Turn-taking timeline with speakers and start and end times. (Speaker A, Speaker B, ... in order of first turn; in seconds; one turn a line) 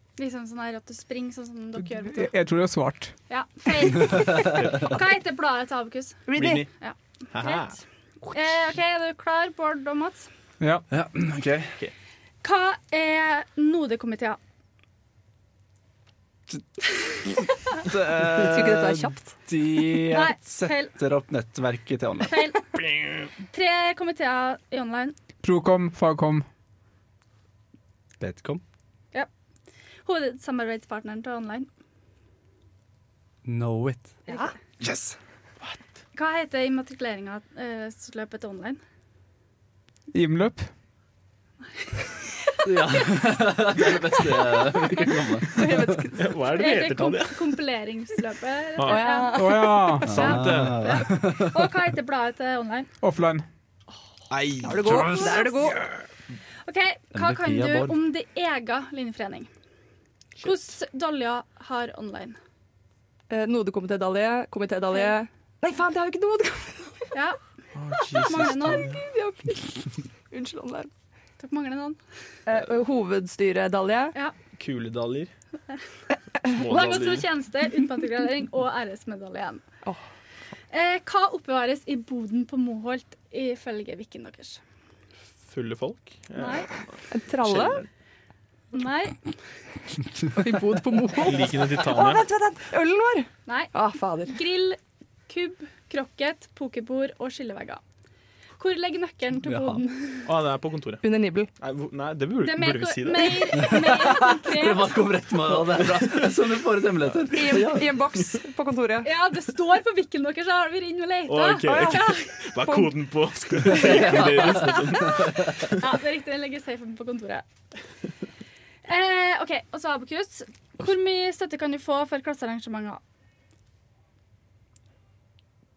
Speaker A: 0.2-2.3
Speaker B: 2.2-3.1
Speaker A: 3.3-7.6
Speaker C: 4.5-4.9
Speaker D: 6.3-6.7
Speaker C: 6.3-6.7
Speaker C: 7.3-7.8
Speaker A: 8.3-10.3
Speaker E: 10.9-11.8
Speaker A: 12.4-14.4
Speaker E: 17.8-22.5
Speaker D: 18.2-19.4
Speaker A: 20.0-20.9
Speaker A: 22.2-22.8
Speaker C: 22.8-23.3
Speaker A: 23.5-25.2
Speaker B: 25.4-26.4
Speaker E: 28.2-28.6
Speaker A: 30.1-31.7
Speaker E: 33.5-34.2
Speaker D: 34.3-34.5
Speaker E: 34.8-35.2
Speaker A: 36.1-38.8
Speaker B: 40.1-40.7
Speaker A: 42.2-43.1
Speaker E: 42.6-46.0
Speaker D: 45.5-46.5
Speaker C: 46.2-47.5
Speaker A: 46.5-52.9
Speaker D: 48.8-49.7
Speaker B: 49.3-50.4
Speaker C: 50.0-51.0
Speaker E: 50.1-51.8
Speaker B: 53.0-53.5
Speaker C: 54.3-55.9
Speaker D: 54.6-55.8
Speaker A: 54.9-55.7
Speaker A: 56.7-59.5
Speaker E: 57.1-58.0
Speaker A: 60.4-62.4
Speaker D: 63.3-67.2
Speaker A: 67.1-67.4
Speaker C: 67.8-69.0
Speaker A: 68.1-69.0
Speaker D: 68.2-70.9
Speaker A: 71.4-72.0
Speaker D: 72.5-74.2
Speaker C: 74.6-75.3
Speaker C: 76.5-77.3
Speaker A: 76.5-79.6
Speaker A: 80.7-84.6
Speaker C: 85.5-87.9
Speaker A: 86.3-86.7
Speaker D: 87.1-87.8
Speaker A: 88.7-89.3
Speaker D: 90.3-94.4
Speaker C: 91.2-92.2
Speaker A: 93.5-93.7
Speaker A: 94.3-97.8
Speaker A: 98.6-100.3
Speaker E: 99.5-99.8
Speaker C: 100.2-101.0
Speaker D: 101.0-101.5
Speaker C: 101.6-103.9
Speaker A: 102.4-105.1
Speaker E: 103.7-108.1
Speaker C: 105.8-106.2
Speaker D: 107.3-109.1
Speaker A: 109.0-112.3
Speaker C: 111.3-115.8
Speaker D: 111.6-112.9
Speaker E: 113.8-115.5
Speaker A: 114.0-117.5
Speaker A: 118.8-123.0